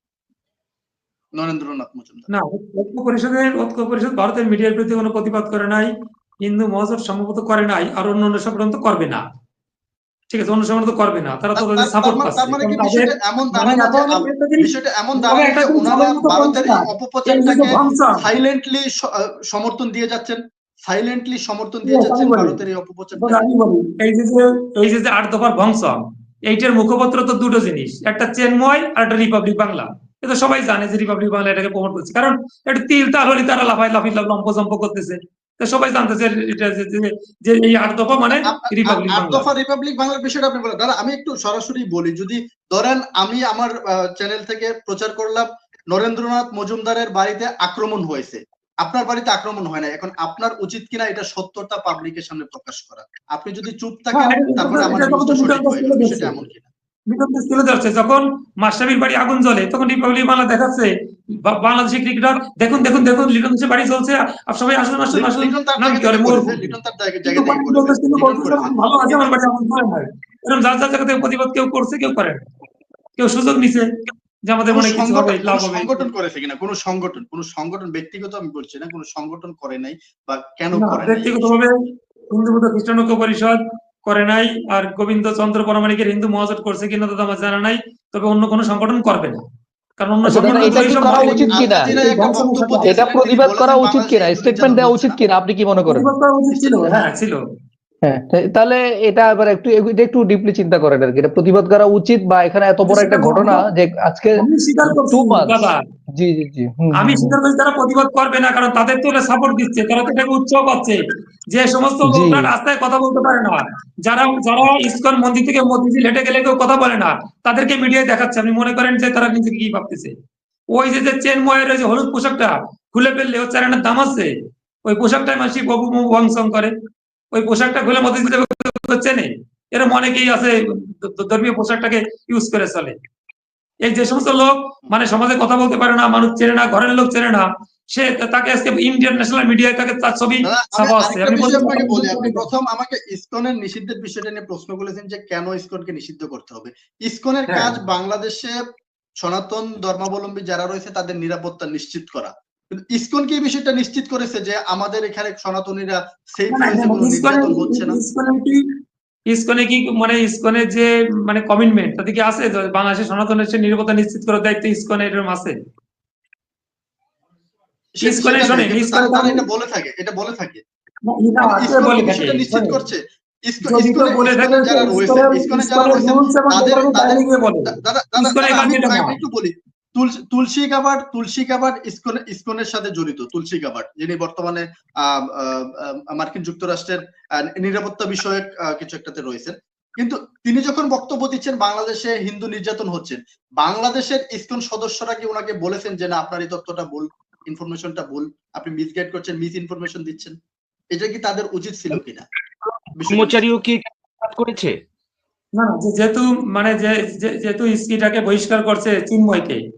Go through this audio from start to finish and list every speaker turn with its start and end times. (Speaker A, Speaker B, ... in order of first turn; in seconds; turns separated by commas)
Speaker A: 1.4-2.3, Speaker B: 2.3-5.9, Speaker B: 6.4-9.2, Speaker B: 10.3-18.2, Speaker A: 11.6-23.4, Speaker B: 21.8-22.6, Speaker B: 23.2-39.5, Speaker A: 38.3-56.7, Speaker B: 54.1-56.4, Speaker B: 57.1-60.9, Speaker B: 61.4-72.4, Speaker A: 65.1-69.3, Speaker B: 73.2-73.8, Speaker B: 74.5-76.1, Speaker A: 74.7-81.6, Speaker B: 80.8-81.7, Speaker B: 82.3-89.4, Speaker B: 90.0-93.0, Speaker C: 90.2-91.9, Speaker A: 90.3-95.2, Speaker C: 92.8-96.1, Speaker B: 95.9-97.4, Speaker A: 96.5-97.1, Speaker C: 98.0-107.4, Speaker B: 102.9-103.6, Speaker B: 104.4-105.8, Speaker B: 107.0-111.0, Speaker B: 111.5-120.1, Speaker C: 112.0-112.5, Speaker B: 120.7-124.3, Speaker B: 124.8-126.7, Speaker B: 127.3-132.9, Speaker B: 133.8-142.4, Speaker A: 140.4-148.6, Speaker A: 149.2-158.0, Speaker B: 156.5-158.6, Speaker B: 159.3-165.5, Speaker A: 168.0-170.6, Speaker B: 168.0-169.4, Speaker B: 171.1-172.8, Speaker A: 171.4-187.0, Speaker B: 173.6-179.2, Speaker A: 187.6-200.3, Speaker A: 200.9-202.2, Speaker D: 202.7-204.7, Speaker A: 202.9-203.4, Speaker B: 205.6-209.6